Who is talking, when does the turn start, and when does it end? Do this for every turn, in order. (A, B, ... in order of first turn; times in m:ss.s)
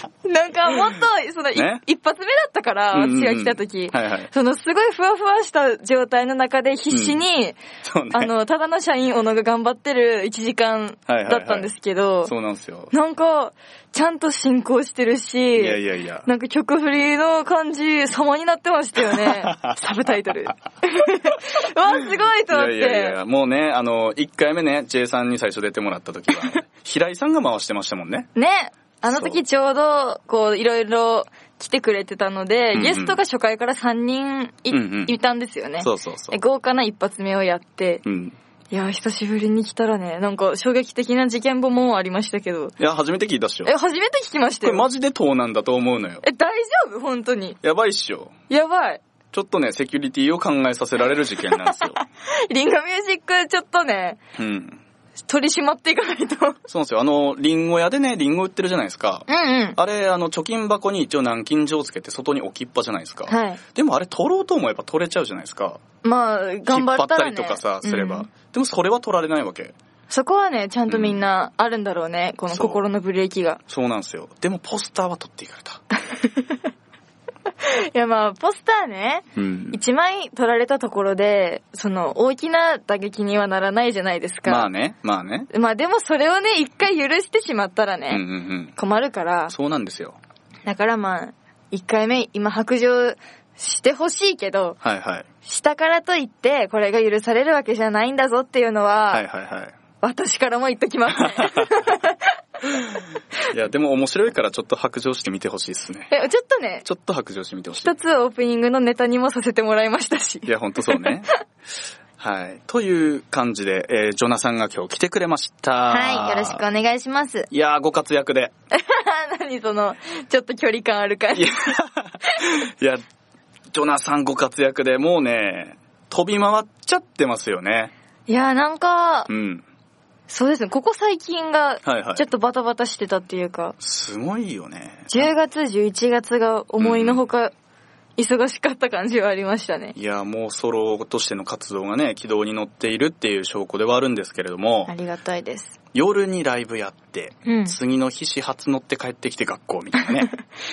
0:00.2-0:07.6 A
0:01.5-0:01.8 B
0:02.9-0:04.3 B
0:06.9-0:07.2 B
0:07.8-0:08.3 B
0:08.1-0:12.3 A
0:11.1-0:11.7 B
0:12.2-0:12.9 B
0:12.9-0:23.2 A
0:15.6-0:16.3 B
0:19.4-0:19.8 B
0:22.5-0:28.3 B
0:28.4-0:38.0 A
0:29.1-0:29.4 B
0:32.7-0:33.2 B
0:34.7-0:35.1 B
0:35.8-0:36.4 B
0:38.0-0:38.4 B
0:38.7-0:42.7 A
0:42.8-0:43.7 B
0:43.6-0:44.8 A
0:44.6-0:46.2 B
0:46.2-0:47.6 A
0:47.6-0:48.4 B
0:48.5-0:49.0 A
0:49.3-0:52.0 B
0:51.6-0:54.2 A
0:54.4-0:54.8 B
0:55.3-0:56.6 A
0:56.7-1:05.8 B
0:59.3-0:59.8 A
1:03.3-1:03.6 A
1:06.0-1:08.3 A
1:06.7-1:09.7 B
1:10.1-1:13.6 A
1:10.9-1:11.2 B
1:12.5-1:12.8 B
1:13.7-1:15.8 B
1:16.2-1:16.6 A
1:17.6-1:24.7 A
1:19.4-1:19.8 B
1:24.4-1:25.5 B
1:25.5-1:28.2 A
1:28.1-1:28.7 B
1:28.8-1:29.5 A
1:29.5-1:30.2 B
1:30.6-1:34.8 A
1:34.8-1:35.3 B
1:35.4-1:39.2 A
1:39.1-1:39.8 B
1:40.0-1:42.4 A
1:41.3-1:41.7 B
1:43.5-1:46.1 B
1:46.1-1:46.8 A
1:46.8-1:47.9 B
1:47.8-1:51.2 A
1:50.4-1:51.3 B
1:52.2-1:56.6 B
1:55.9-1:57.5 A
1:57.5-1:58.5 B
1:58.7-2:01.7 A
2:01.3-2:03.0 B
2:03.7-2:07.9 B
2:08.3-2:09.3 A
2:09.3-2:09.6 B
2:10.3-2:13.8 A
2:11.8-2:12.2 B
2:13.8-2:15.3 B
2:15.1-2:17.5 A
2:16.8-2:17.2 B
2:18.2-2:19.9 A
2:19.9-2:24.9 B
2:24.9-2:25.8 A
2:25.9-2:30.3 B
2:27.4-2:27.8 A